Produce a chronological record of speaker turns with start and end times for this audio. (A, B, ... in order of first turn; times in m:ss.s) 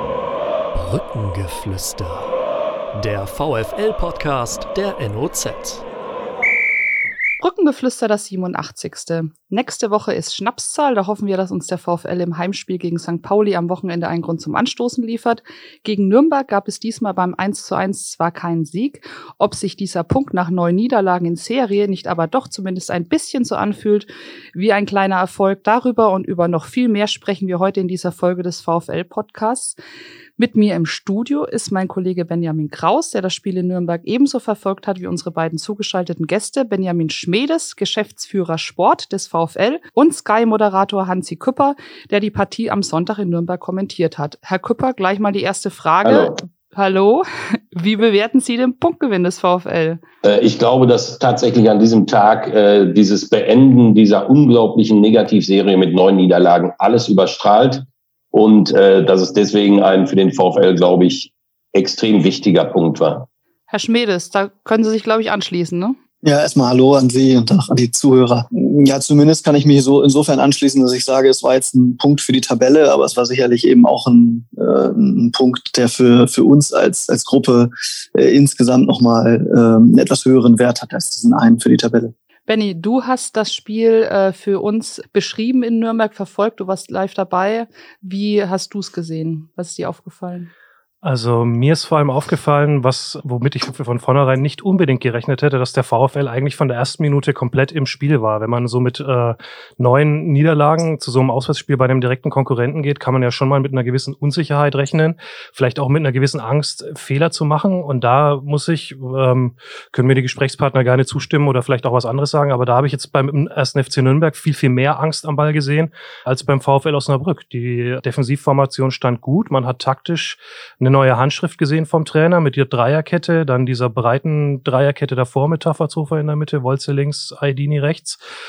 0:00.7-0:02.3 A
0:02.9-0:05.8 A
0:07.4-0:29.8 B
0:30.4-0:50.0 B
0:46.0-0:46.4 C
0:50.2-1:03.3 C
1:03.7-1:06.0 B
1:06.2-1:22.1 D
1:22.5-1:30.5 B
1:31.0-2:08.2 E